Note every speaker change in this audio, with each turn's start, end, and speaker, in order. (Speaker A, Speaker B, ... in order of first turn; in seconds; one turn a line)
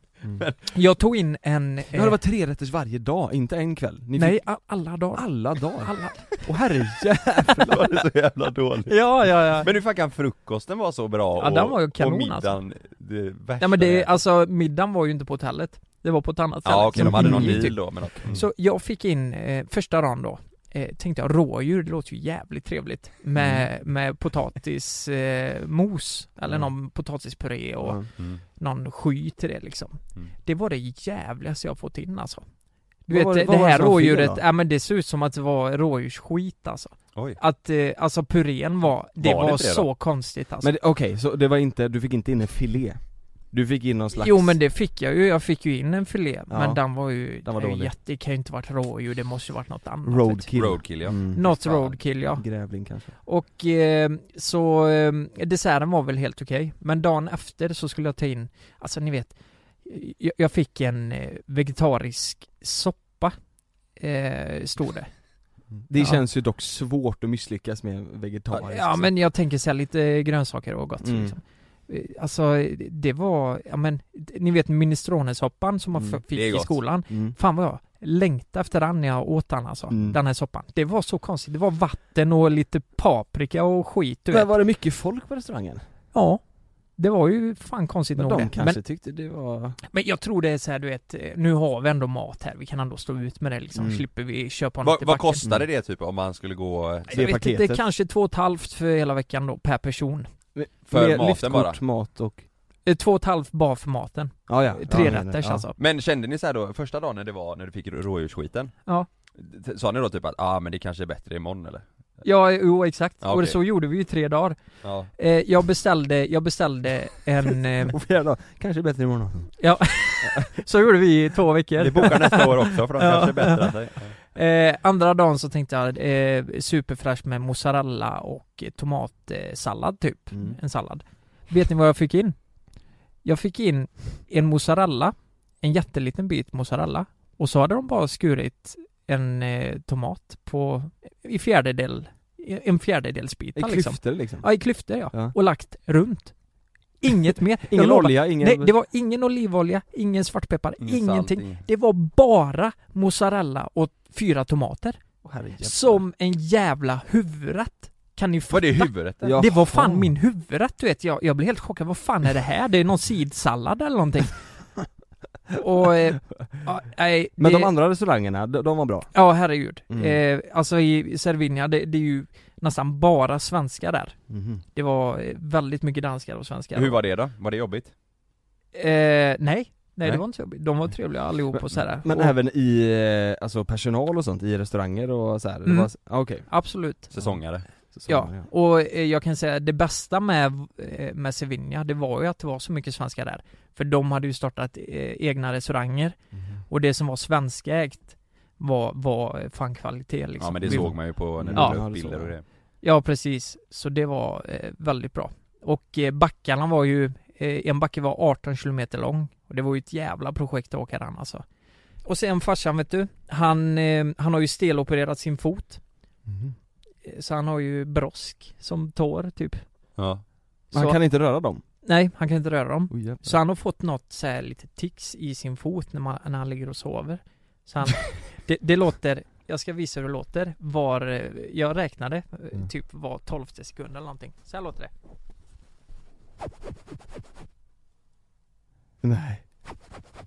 Speaker A: 0.4-0.7
Speaker B: 0.7-2.2
Speaker C: 1.9-4.4
Speaker B: 4.2-6.3
Speaker C: 5.1-8.1
Speaker A: 7.6-14.2
Speaker B: 8.9-9.7
Speaker B: 11.4-12.5
Speaker B: 13.6-32.5
Speaker A: 16.6-18.4
Speaker C: 16.9-18.4
Speaker C: 23.4-23.7
Speaker C: 27.8-28.1
Speaker B: 33.1-40.7
Speaker C: 33.1-34.4
Speaker A: 39.2-39.9
Speaker C: 40.6-44.6
Speaker B: 44.1-52.7
Speaker C: 46.5-47.9
Speaker C: 50.1-51.5
Speaker A: 50.5-52.0
Speaker C: 52.3-53.1
Speaker B: 53.2-63.4
Speaker B: 64.0-65.1
Speaker C: 65.8-69.1
Speaker B: 66.0-66.2
Speaker B: 68.6-84.5
Speaker C: 71.0-71.3
Speaker C: 76.0-76.2
Speaker A: 76.3-76.8
Speaker C: 77.1-77.4
Speaker C: 79.9-80.2
Speaker C: 84.3-85.8
Speaker B: 86.1-86.4
Speaker B: 87.0-88.8
Speaker C: 88.2-89.8
Speaker B: 89.9-95.4
Speaker C: 93.8-94.0
Speaker A: 94.8-97.3
Speaker C: 97.1-97.8
Speaker B: 97.1-100.3
Speaker C: 100.5-102.4
Speaker A: 100.9-101.8
Speaker B: 102.8-105.8
Speaker C: 104.5-105.7
Speaker A: 105.8-108.8
Speaker A: 109.3-111.8
Speaker B: 112.2-114.6
Speaker A: 113.2-113.6
Speaker A: 114.8-115.1
Speaker B: 115.2-118.0
Speaker C: 117.8-119.6
Speaker B: 119.6-123.7
Speaker A: 121.8-124.2
Speaker B: 124.3-132.4
Speaker C: 130.3-130.6
Speaker B: 133.2-146.4
Speaker C: 143.6-145.3
Speaker B: 147.0-164.4
Speaker C: 147.7-148.7
Speaker A: 150.8-151.6
Speaker C: 155.2-156.0
Speaker A: 158.5-159.6
Speaker C: 159.2-160.1
Speaker B: 165.6-167.7
Speaker C: 167.4-169.1
Speaker B: 169.1-174.2
Speaker C: 169.9-170.2
Speaker C: 174.3-174.6
Speaker B: 174.7-177.0
Speaker A: 176.7-177.9
Speaker B: 178.7-182.3
Speaker C: 181.5-187.4
Speaker B: 185.7-185.9
Speaker B: 186.5-187.1
Speaker A: 187.1-187.7
Speaker C: 187.9-188.5
Speaker B: 188.1-196.2
Speaker C: 196.3-196.6
Speaker B: 196.7-201.0
Speaker A: 200.4-202.4
Speaker C: 200.6-202.4
Speaker B: 201.5-201.8
Speaker B: 202.8-211.4
Speaker B: 212.0-215.8
Speaker C: 216.3-216.6
Speaker B: 217.0-219.6
Speaker A: 220.0-220.2
Speaker C: 220.7-221.6
Speaker B: 220.7-221.0
Speaker B: 221.8-234.9
Speaker C: 222.9-223.3
Speaker C: 239.0-239.5